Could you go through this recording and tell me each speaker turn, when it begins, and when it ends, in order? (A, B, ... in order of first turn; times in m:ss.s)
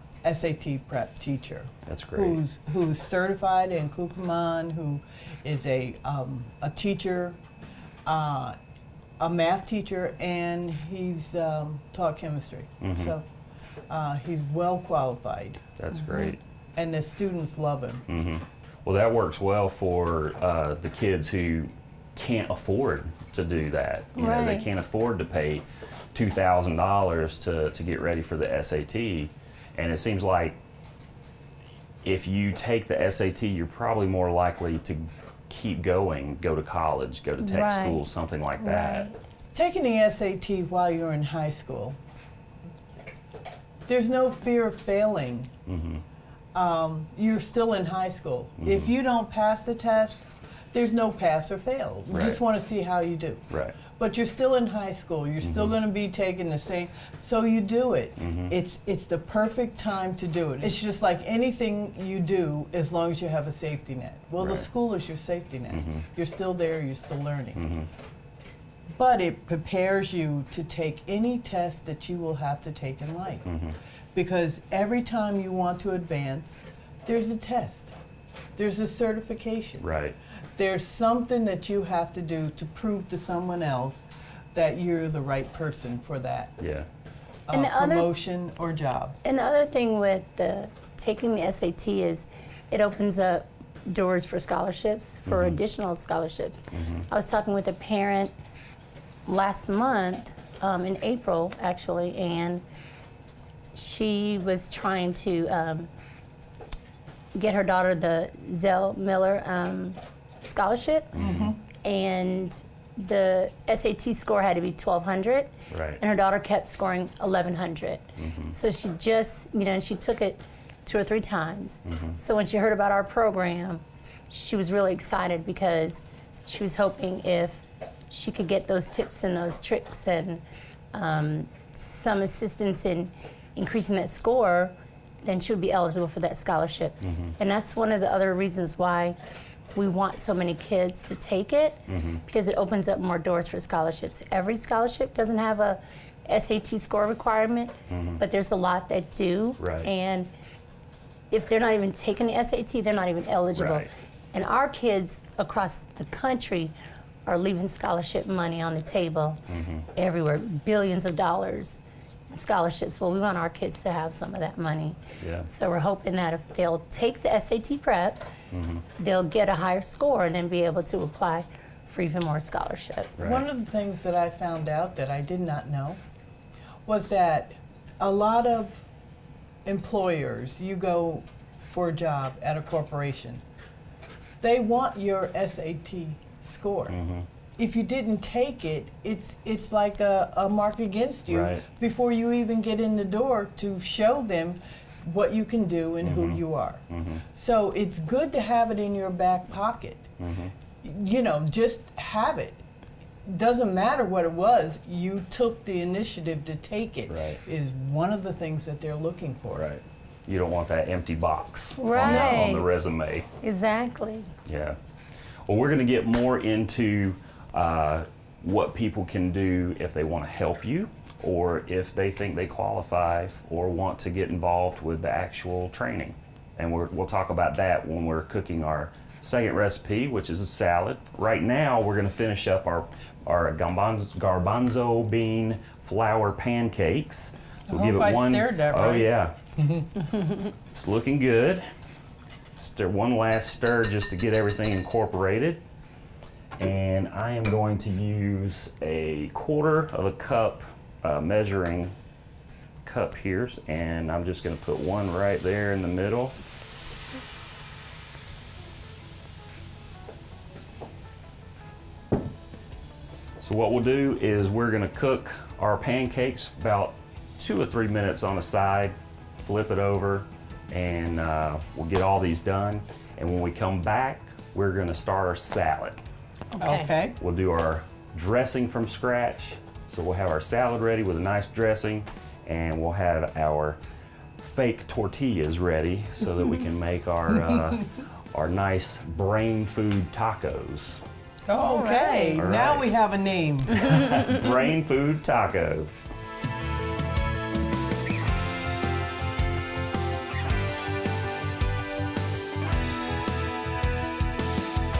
0:00.2-0:07.4 A
0:01.8-0:02.4 B
0:08.0-0:08.6 A
0:09.2-0:13.2 A
0:12.8-0:13.1 B
0:13.9-0:15.6 A
0:15.8-0:16.4 B
0:16.7-0:18.0 A
0:18.1-0:30.6 B
0:24.2-0:24.7 C
0:32.0-0:39.1 B
0:37.4-0:39.1 C
0:39.5-0:42.0 A
0:43.9-0:45.5 A
0:45.6-0:46.0 B
0:46.5-1:07.6 A
0:48.6-0:48.9 B
0:52.1-0:52.4 B
0:53.5-0:53.8 B
0:55.4-0:55.8 B
0:58.2-0:58.5 B
1:04.4-1:04.6 B
1:05.7-1:06.1 B
1:07.5-1:07.9 B
1:08.9-1:13.4 A
1:13.4-1:13.8 B
1:14.1-1:17.9 A
1:18.6-1:19.8 A
1:19.8-1:20.2 B
1:20.6-1:26.6 A
1:26.6-1:26.9 B
1:27.5-1:29.2 A
1:27.5-1:28.1 C
1:29.2-1:38.3 C
1:35.3-1:35.6 B
1:36.7-1:37.0 B
1:39.3-1:42.6 C
1:43.7-1:45.9 C
1:47.3-2:19.2 C
1:51.1-1:51.5 B
1:51.2-1:51.6 A
1:55.7-1:56.0 B
1:58.2-1:58.5 B
2:01.8-2:02.2 B
2:17.0-2:17.3 B
2:19.7-2:30.3 C
2:21.9-2:22.2 B
2:27.9-2:28.2 B
2:29.6-2:29.9 B
2:31.3-2:36.7 C
2:33.5-2:33.9 B
2:37.2-2:39.4 C
2:39.5-2:39.8 B
2:39.9-2:41.8 C
2:42.3-2:48.2 C
2:45.2-2:45.5 B
2:48.5-2:48.8 B
2:49.0-2:53.3 C
2:53.2-2:53.4 B
2:53.2-2:56.0 A
2:56.8-2:58.8 A
2:59.6-3:03.4 A
3:04.4-3:07.0 A
3:06.9-3:07.3 B
3:07.6-3:20.1 A
3:11.3-3:11.6 B
3:16.0-3:17.2 B
3:20.2-3:20.5 B
3:20.8-3:22.6 A
3:23.2-3:29.6 A
3:27.1-3:27.4 B
3:29.5-3:33.3 B
3:31.8-3:32.7 C
3:32.0-3:32.5 A
3:33.4-3:34.3 C
3:34.4-3:34.8 B
3:35.4-3:59.4 B
3:57.7-3:59.1 A
4:00.7-4:01.6 B
4:02.6-4:05.6 B
4:06.6-4:12.0 B
4:12.8-4:16.4 B
4:23.4-4:36.0 B
4:36.5-4:36.9 C
4:36.6-4:37.2 A
4:37.2-4:43.8 B
4:44.4-4:51.0 B
4:51.5-4:53.9 A
4:51.6-4:52.4 C
4:52.4-4:52.9 B
4:53.7-4:56.1 B